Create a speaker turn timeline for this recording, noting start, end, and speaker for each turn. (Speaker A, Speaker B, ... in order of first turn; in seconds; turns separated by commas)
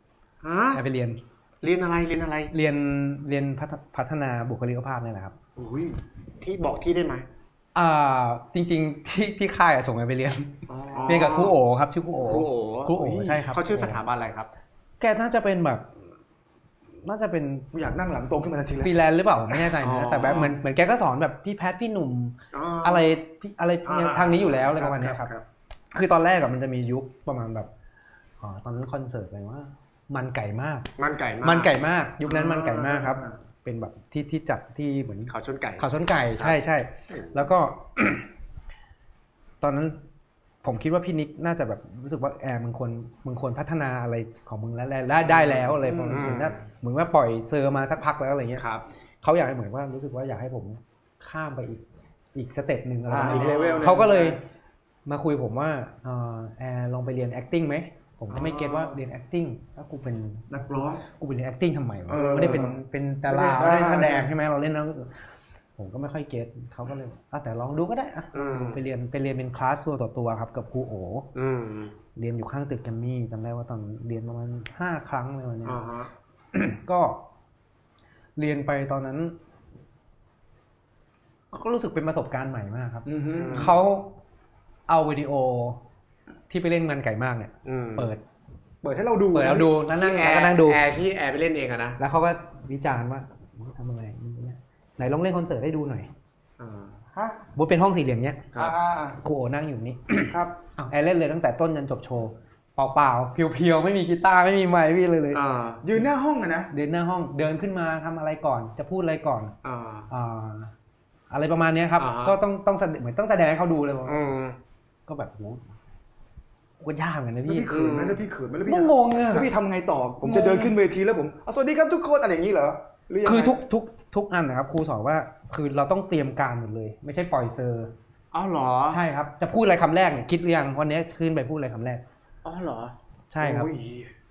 Speaker A: 0.4-0.8, Speaker B: 0.7-1.2, Speaker A: 1.6-2.5, Speaker B: 2.5-5.3, Speaker A: 5.5-7.2, Speaker B: 7.7-10.5, Speaker A: 10.7-11.5, Speaker C: 10.9-11.3, Speaker B: 11.1-14.0, Speaker A: 12.2-14.5, Speaker B: 15.0-15.9, Speaker B: 17.0-17.7, Speaker C: 17.7-18.9, Speaker B: 18.8-25.3, Speaker A: 19.8-20.6, Speaker A: 22.5-23.1, Speaker A: 23.9-25.4, Speaker C: 24.8-25.1, Speaker B: 25.9-27.7, Speaker B: 28.4-30.9, Speaker A: 31.0-31.7, Speaker B: 31.4-38.2, Speaker A: 32.2-33.3, Speaker A: 35.3-35.8, Speaker B: 39.6-40.0, Speaker B: 40.6-48.6, Speaker A: 45.3-46.6, Speaker C: 45.8-46.5, Speaker A: 48.6-48.8, Speaker B: 49.2-51.8, Speaker B: 52.3-54.4, Speaker C: 53.1-54.4, Speaker A: 53.2-54.1, Speaker B: 55.0-60.5, Speaker A: 58.3-59.0, Speaker A: 60.6-61.0, Speaker B: 61.2-65.1, Speaker C: 62.1-64.3, Speaker A: 62.1-62.6, Speaker B: 65.8-71.3, Speaker A: 68.3-68.8, Speaker A: 71.3-72.0, Speaker B: 72.2-75.8, Speaker A: 75.6-76.1, Speaker B: 76.5-77.2, Speaker B: 78.4-79.3, Speaker B: 81.5-84.1, Speaker C: 83.0-83.7, Speaker A: 83.3-83.8, Speaker B: 84.9-85.8, Speaker B: 86.5-88.2, Speaker A: 87.6-88.1, Speaker C: 88.8-89.7, Speaker B: 89.3-90.8, Speaker A: 89.5-92.0, Speaker B: 92.0-96.1, Speaker A: 96.6-97.0, Speaker B: 97.5-98.5, Speaker C: 98.5-99.2, Speaker B: 99.2-105.4, Speaker C: 100.3-100.5, Speaker A: 105.3-105.8, Speaker C: 105.8-106.7, Speaker B: 106.7-109.5, Speaker A: 109.6-110.1, Speaker B: 110.1-110.7, Speaker B: 111.3-114.2, Speaker A: 112.0-112.4, Speaker A: 114.0-114.6, Speaker B: 115.1-115.7, Speaker B: 116.8-117.8, Speaker C: 117.5-123.6, Speaker A: 117.7-118.2, Speaker B: 118.7-119.5, Speaker B: 120.2-120.7, Speaker B: 123.2-127.9, Speaker A: 128.3-129.0, Speaker B: 128.9-132.0, Speaker A: 132.4-132.9, Speaker B: 133.3-133.7, Speaker C: 133.4-134.1